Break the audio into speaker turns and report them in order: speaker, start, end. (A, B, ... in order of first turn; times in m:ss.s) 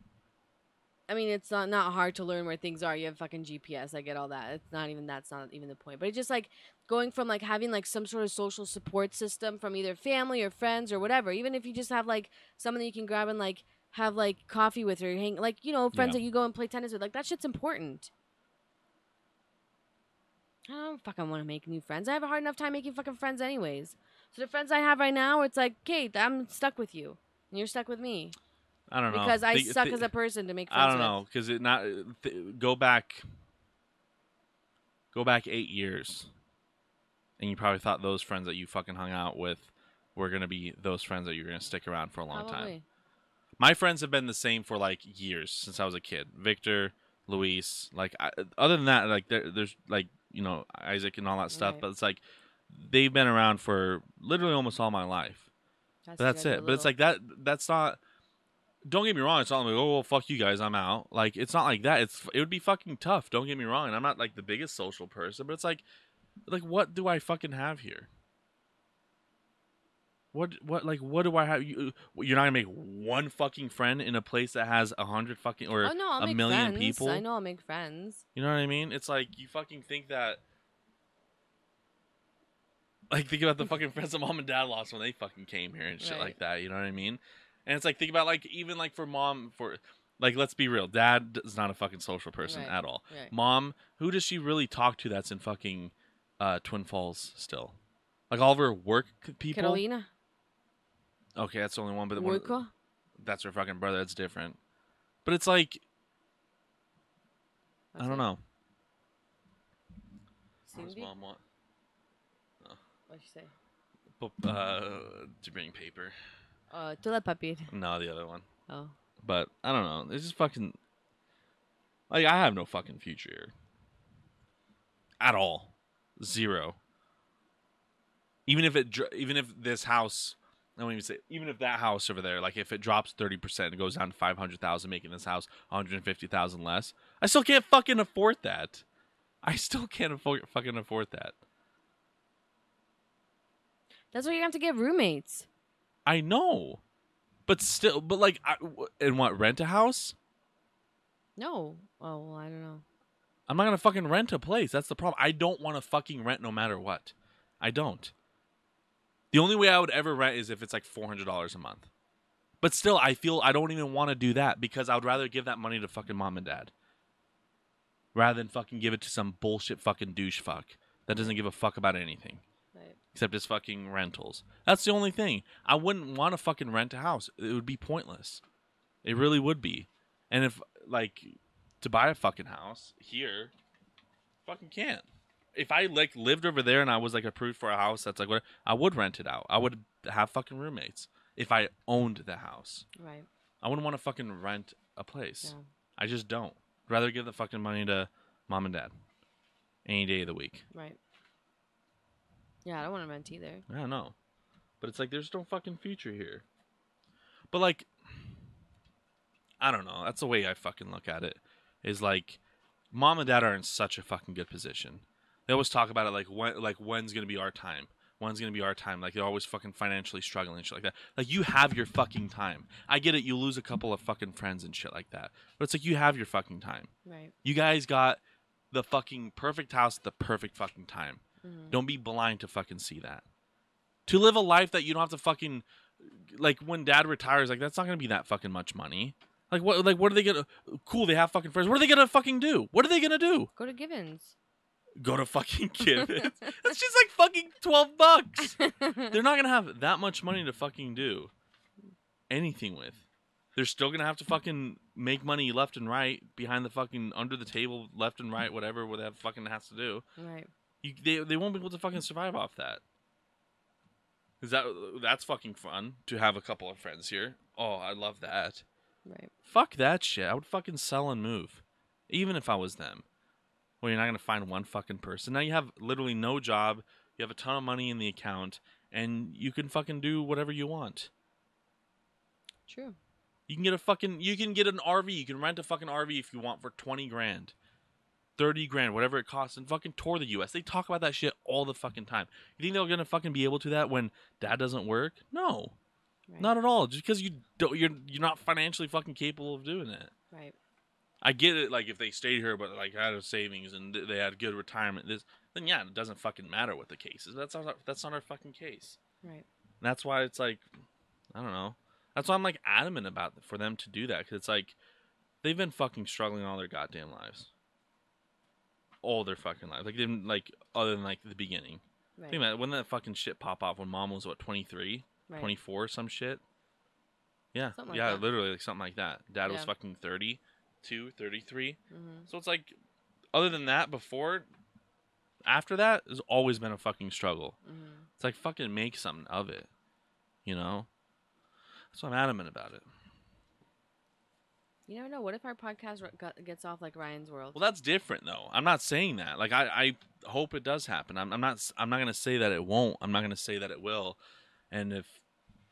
0:01.1-0:18.1 A
0:15.9-0:16.2 B
0:20.7-0:28.4 A
0:28.9-0:30.1 B
0:29.1-0:31.2 A
0:30.7-0:33.2 B
0:35.1-0:36.3 B
0:37.4-0:42.7 B
0:42.3-0:42.8 A
0:43.6-0:55.5 B
0:51.5-0:51.8 A
0:56.1-0:56.9 A
0:56.2-0:58.0 B
0:58.9-1:05.8 B
1:06.5-1:08.1 B
1:10.3-1:17.2 B
1:15.8-1:18.2 A
1:18.4-1:20.4 B
1:23.1-1:37.8 B
1:26.0-1:26.4 A
1:32.4-1:33.3 A
1:38.3-1:39.8 B
1:39.5-1:40.1 A
1:41.4-1:42.6 B
1:42.1-1:42.7 A
1:43.2-1:44.6 B
1:45.2-1:45.8 B
1:47.9-1:48.2 A
1:48.0-1:48.4 B
1:50.6-1:51.1 A
1:50.7-1:51.4 B
1:53.1-1:53.5 A
1:54.2-1:56.1 B
1:56.7-1:57.7 A
1:57.7-1:58.4 B
1:58.7-1:58.9 A
1:59.2-2:00.8 B
2:02.1-2:03.5 B
2:05.2-2:06.8 B
2:08.5-2:18.8 B
2:19.4-2:21.3 B
2:24.1-2:25.5 A
2:26.0-2:26.8 B
2:27.5-2:30.2 B
2:31.4-2:32.8 A
2:33.5-2:38.1 B
2:39.3-2:41.9 B
2:42.6-2:46.7 B
2:48.1-2:52.4 B
2:53.1-2:58.4 B
2:59.0-3:03.5 B
3:04.4-3:12.8 B
3:13.0-3:13.3 A
3:13.6-3:18.9 B
3:19.8-3:20.6 B
3:20.7-3:21.0 A
3:22.6-3:23.6 A
3:23.7-3:24.1 B
3:24.8-3:26.4 B
3:27.5-3:27.9 B
3:29.6-3:32.4 B
3:32.9-3:46.9 B
3:47.0-3:47.3 A
3:47.4-3:53.2 B
3:51.4-3:51.8 A
3:54.1-4:03.5 B
4:03.6-4:04.3 A
4:05.0-4:11.3 B
4:06.0-4:06.5 A
4:08.5-4:09.1 A
4:12.3-4:13.0 B
4:13.6-4:20.0 B
4:20.2-4:20.5 A
4:20.8-4:22.8 B
4:24.4-4:28.6 B
4:29.0-4:29.3 A
4:29.4-4:33.0 B
4:33.8-4:41.1 B
4:42.7-4:43.0 A
4:43.5-4:47.5 B
4:48.4-4:55.7 B
4:56.4-5:00.1 B
5:01.2-5:09.0 B
5:09.8-5:10.6 B
5:11.3-5:14.8 B
5:15.4-5:17.5 B
5:19.0-5:26.4 B
5:27.5-5:32.7 B
5:27.7-5:28.2 A
5:29.4-5:29.7 A
5:31.9-5:32.3 A
5:33.3-5:34.5 B
5:35.4-5:37.5 B
5:37.6-5:38.1 A
5:38.2-5:39.7 B
5:40.4-5:40.9 B
5:41.9-5:42.8 B
5:44.9-5:47.6 A
5:47.5-5:54.2 B
5:54.7-5:55.2 B